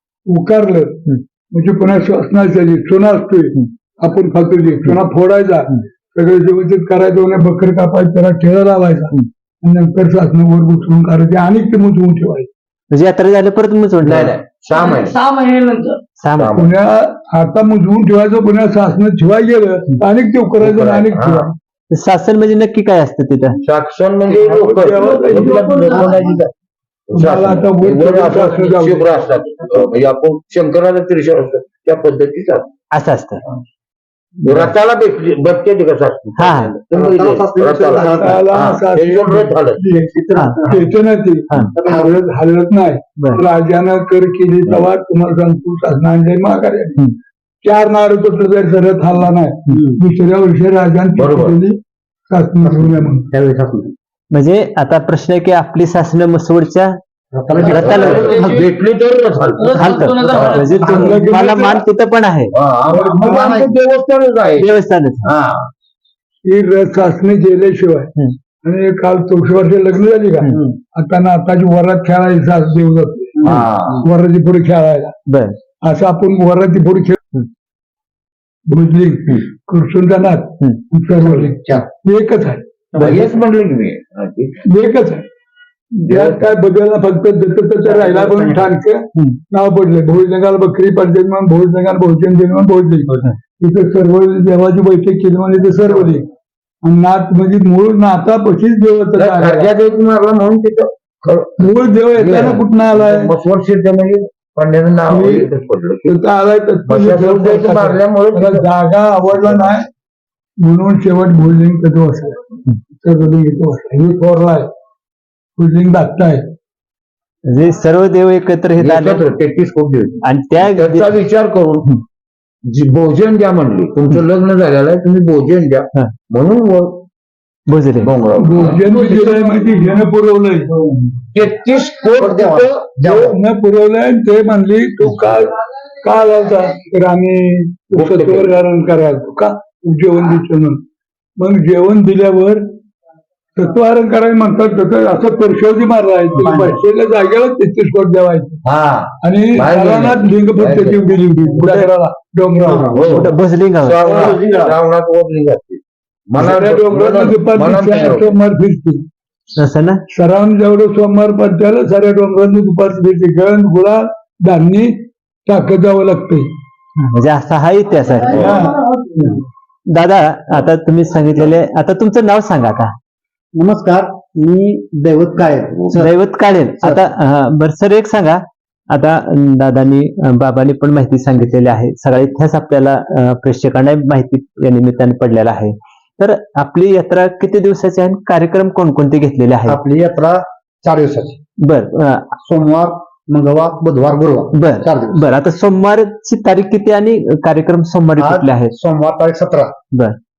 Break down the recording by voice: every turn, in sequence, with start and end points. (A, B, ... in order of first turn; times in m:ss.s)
0:00.2-0:12.5 A
0:12.9-0:14.3 B
0:14.0-0:15.2 C
0:14.7-0:16.0 D
0:16.2-0:16.6 B
0:16.4-0:16.8 C
0:16.6-0:21.5 A
0:20.6-0:21.5 C
0:21.9-0:23.6 B
0:23.6-0:26.4 C
0:24.3-0:26.0 A
0:25.3-0:26.5 E
0:27.1-0:32.7 C
0:27.1-0:29.1 A
0:32.9-0:33.4 B
0:34.4-0:39.8 C
0:36.4-0:36.7 B
0:36.9-0:38.4 E
0:38.2-0:40.1 A
0:39.9-0:41.0 E
0:40.7-0:47.0 A
0:41.7-0:42.2 E
0:43.2-0:43.4 B
0:47.6-0:53.2 A
0:49.7-0:50.0 E
0:51.1-0:51.6 C
0:52.6-0:53.9 E
0:54.3-0:57.0 B
0:57.3-0:58.4 E
0:57.6-0:58.6 B
0:57.7-1:01.1 C
0:58.3-0:58.7 D
0:59.6-1:01.2 D
0:59.7-1:02.5 B
1:01.0-1:01.8 A
1:02.5-1:04.7 C
1:02.9-1:03.7 E
1:02.9-1:03.5 A
1:04.6-1:05.3 B
1:05.2-1:05.7 C
1:06.4-1:08.1 A
1:08.6-1:13.4 A
1:13.4-1:14.0 E
1:13.4-1:14.0 C
1:14.0-1:15.1 A
1:15.3-1:15.6 B
1:15.8-1:17.2 A
1:18.6-1:22.6 A
1:21.2-1:21.8 E
1:22.9-1:23.4 E
1:23.0-1:24.6 C
1:24.6-1:25.2 A
1:25.9-1:36.2 A
1:26.1-1:26.4 C
1:27.8-1:29.4 E
1:36.8-1:39.6 A
1:39.2-1:46.2 C
1:41.6-1:43.3 A
1:45.1-1:45.5 A
1:46.0-1:49.9 A
1:46.9-1:48.7 C
1:50.6-1:52.4 A
1:53.0-1:54.7 A
1:55.6-1:56.5 A
1:57.5-1:59.2 B
1:58.8-2:01.9 C
2:00.2-2:01.1 B
2:02.6-2:07.0 C
2:07.7-2:08.1 B
2:08.0-2:08.8 C
2:08.4-2:11.0 A
2:08.9-2:09.6 D
2:11.3-2:12.9 C
2:12.2-2:13.4 E
2:13.1-2:20.8 A
2:17.9-2:18.5 C
2:21.4-2:22.7 A
2:23.6-2:28.6 A
2:26.4-2:26.8 E
2:28.6-2:31.1 C
2:29.2-2:32.9 A
2:31.6-2:31.9 E
2:32.6-2:33.3 E
2:32.9-2:38.4 C
2:33.1-2:34.0 B
2:34.0-2:34.8 E
2:36.4-2:39.0 A
2:39.6-2:40.0 B
2:40.1-2:46.5 A
2:47.0-2:48.7 B
2:48.2-2:48.7 C
2:48.4-2:48.8 A
2:49.9-2:52.9 B
2:53.6-2:56.2 E
2:56.0-3:09.8 B
3:09.7-3:11.4 E
3:11.6-3:12.3 B
3:12.4-3:15.2 E
3:14.5-3:18.7 B
3:18.2-3:19.7 E